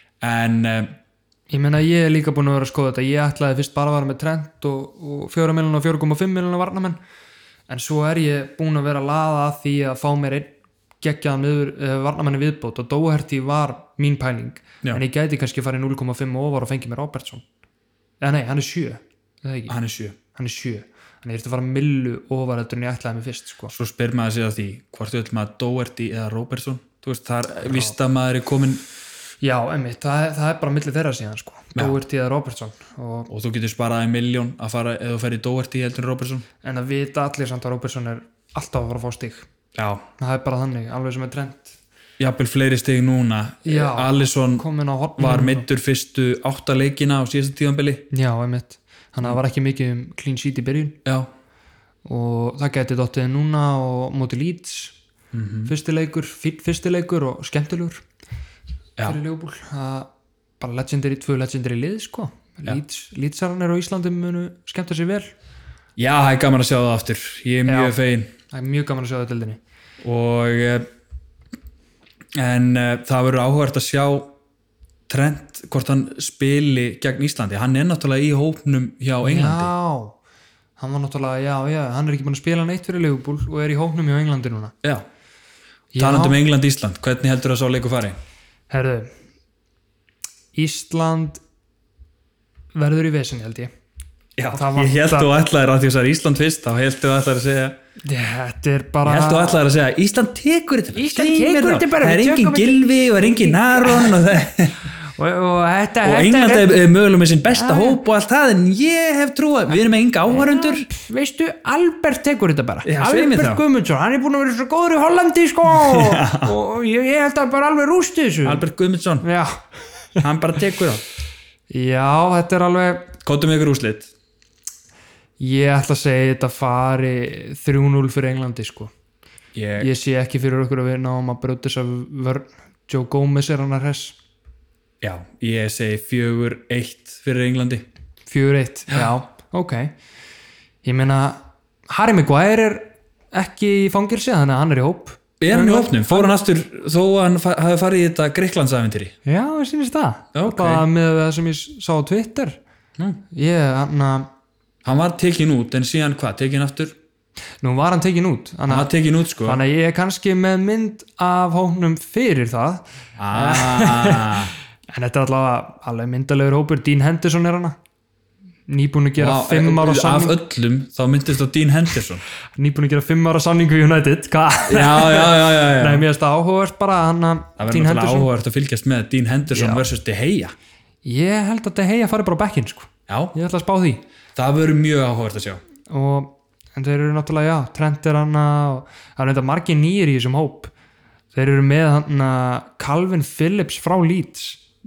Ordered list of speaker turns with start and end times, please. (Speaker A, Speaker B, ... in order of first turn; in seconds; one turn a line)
Speaker A: 0.2-0.9
Speaker B: 1.5-7.0
Speaker B: 7.7-17.4
Speaker B: 18.2-19.7
Speaker A: 19.7-20.1
Speaker B: 20.3-23.7
Speaker A: 23.7-28.8
Speaker B: 27.6-27.9
Speaker B: 29.4-33.3
Speaker A: 33.3-36.5
Speaker B: 36.6-39.5
Speaker A: 39.7-40.0
Speaker B: 40.2-41.8
Speaker A: 42.2-44.6
Speaker B: 43.6-45.6
Speaker A: 45.2-48.0
Speaker B: 48.1-51.0
Speaker B: 52.0-54.9
Speaker A: 55.3-55.7
Speaker B: 55.6-58.0
Speaker B: 59.0-60.1
Speaker B: 60.6-65.3
Speaker A: 66.0-68.3
Speaker B: 67.7-68.0
Speaker B: 68.5-69.6
Speaker A: 70.0-70.9
Speaker A: 72.3-74.3
Speaker A: 75.1-79.7
Speaker B: 79.2-80.2
Speaker B: 80.8-84.7
Speaker B: 85.9-86.4
Speaker A: 86.0-88.2
Speaker B: 88.7-89.1
Speaker B: 90.5-91.4
Speaker B: 92.7-93.7
Speaker A: 94.4-97.8
Speaker B: 94.5-95.3
Speaker B: 98.0-99.6
Speaker A: 99.0-104.9
Speaker B: 100.9-104.2
Speaker B: 104.9-106.8
Speaker A: 106.0-110.9
Speaker B: 107.5-108.0
Speaker B: 110.3-118.6
Speaker A: 112.8-113.6
Speaker A: 115.7-116.6
Speaker A: 118.4-119.2
Speaker B: 119.2-120.2
Speaker A: 120.2-121.0
Speaker B: 121.7-123.1
Speaker A: 123.2-124.1
Speaker B: 125.4-128.9
Speaker A: 129.5-129.9
Speaker B: 129.8-134.2
Speaker A: 135.0-137.9
Speaker B: 138.3-139.9
Speaker B: 140.8-146.3
Speaker A: 145.4-149.1
Speaker B: 149.2-152.6
Speaker A: 150.3-150.8
Speaker B: 153.3-154.3
Speaker A: 154.8-157.0
Speaker B: 157.6-158.9
Speaker A: 158.7-159.6
Speaker B: 159.4-167.8
Speaker A: 163.2-164.5
Speaker B: 168.7-170.4
Speaker A: 169.2-172.2
Speaker B: 172.6-178.3
Speaker A: 174.7-176.0
Speaker A: 177.6-180.5
Speaker B: 179.5-179.8
Speaker B: 181.0-184.0
Speaker A: 183.1-183.3
Speaker A: 184.3-185.6
Speaker B: 185.9-190.7
Speaker B: 191.3-194.6